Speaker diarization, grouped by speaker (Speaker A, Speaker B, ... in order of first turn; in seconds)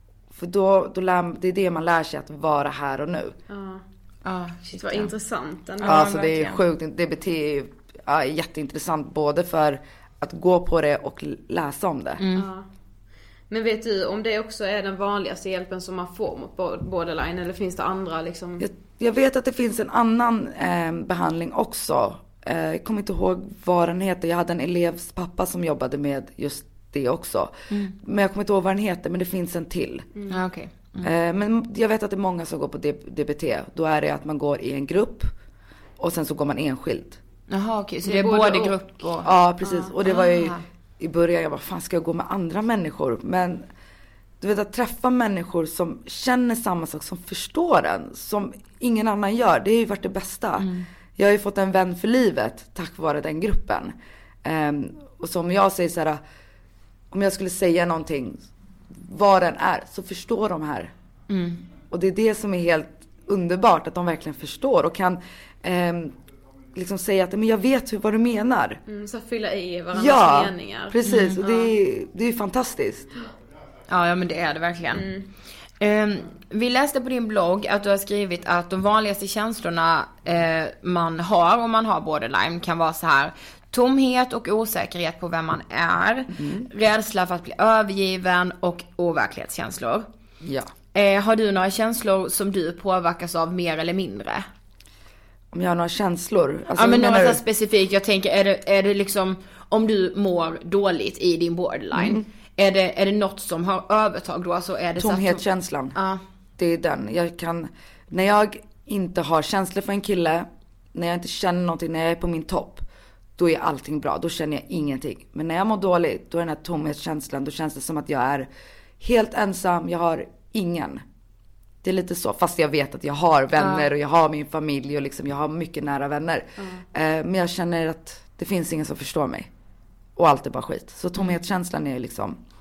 Speaker A: 0.3-3.4, 5.8-12.2, 18.6-30.1, 31.0-35.3, 36.0-37.2, 39.2-43.7, 44.4-53.9, 54.5-56.2, 57.1-60.9, 61.9-66.2, 66.7-68.8, 69.9-73.1, 86.3-86.7, 90.4-90.7, 95.5-97.4, 101.9-102.3, 105.0-106.0, 106.6-112.8, 113.4-118.5, 119.0-121.0, 121.8-129.5, 130.2-132.4
Speaker B: 3.5-3.8, 4.7-6.6, 12.3-12.7, 13.5-18.7, 30.1-30.4, 38.0-38.8, 39.6-39.9, 68.9-71.7, 74.9-75.3, 126.6-126.8
Speaker C: 4.2-5.1, 5.8-6.3, 12.2-12.5, 27.7-28.0, 30.3-31.1, 37.5-39.3, 40.0-40.6, 50.6-50.9, 61.3-61.6, 71.0-71.4, 73.9-75.1, 75.8-90.1, 90.9-94.5, 96.8-105.4, 106.0-106.2, 123.6-123.9